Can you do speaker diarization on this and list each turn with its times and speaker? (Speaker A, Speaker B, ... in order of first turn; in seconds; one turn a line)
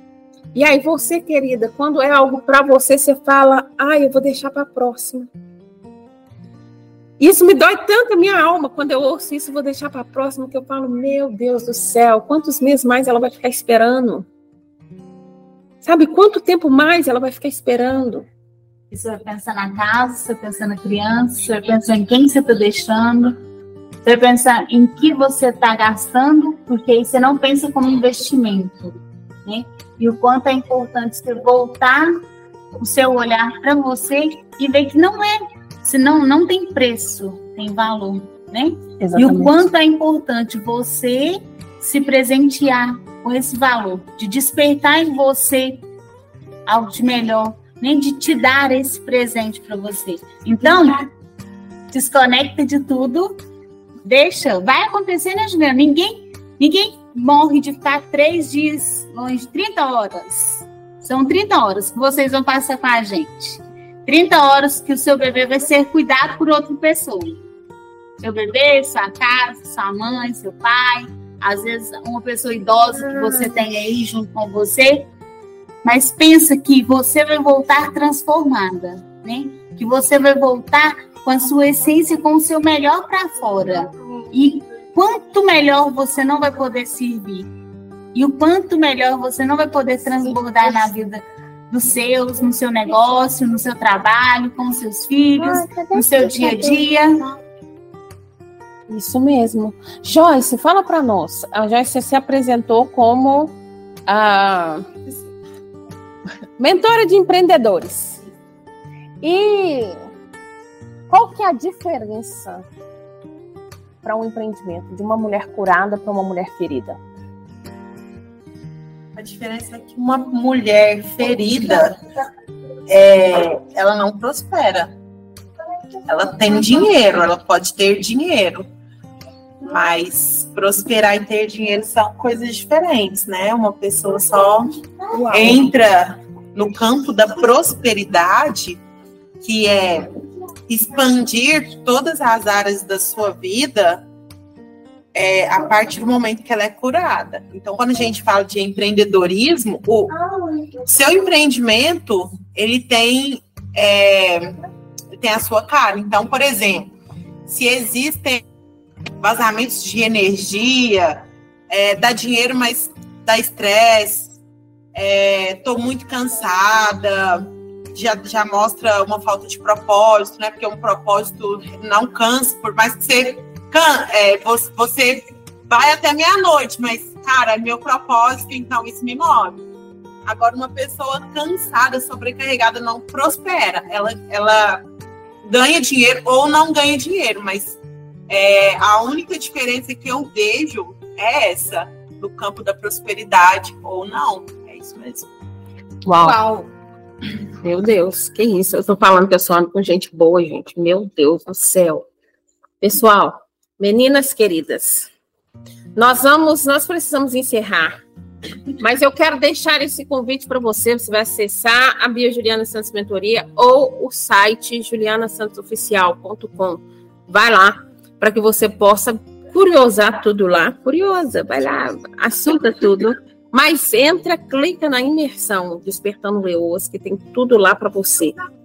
Speaker A: 0.5-5.3
Speaker A: 7.2-14.3
Speaker A: 15.8-18.3
Speaker B: 18.9-23.4
Speaker B: 24.0-32.2
Speaker B: 32.8-45.8
Speaker A: 39.0-39.6
Speaker B: 46.7-51.1
Speaker B: 51.9-53.4
Speaker B: 54.0-67.4
Speaker B: 68.2-75.1
Speaker B: 75.8-87.5
Speaker B: 88.1-97.3
Speaker A: 95.4-96.8
Speaker A: 98.9-103.6
Speaker A: 104.1-105.1
Speaker A: 106.6-108.2
Speaker A: 109.2-110.1
Speaker A: 111.1-112.7
Speaker A: 114.0-117.0
Speaker C: 119.2-122.0
Speaker C: 122.9-125.0
Speaker C: 126.1-128.7
Speaker C: 129.6-138.8
Speaker A: 135.2-135.6
Speaker C: 139.4-140.1
Speaker C: 140.7-144.1
Speaker C: 145.1-150.1
Speaker C: 150.8-154.6
Speaker C: 155.2-156.9
Speaker C: 157.5-158.4
Speaker C: 159.2-164.3
Speaker C: 164.9-179.6
Speaker C: 180.3-184.8
Speaker C: 185.4-195.3
Speaker A: 196.1-196.4
Speaker B: 196.2-196.7
Speaker A: 197.6-202.1
Speaker A: 202.8-205.1
Speaker A: 205.9-208.0
Speaker A: 208.8-228.3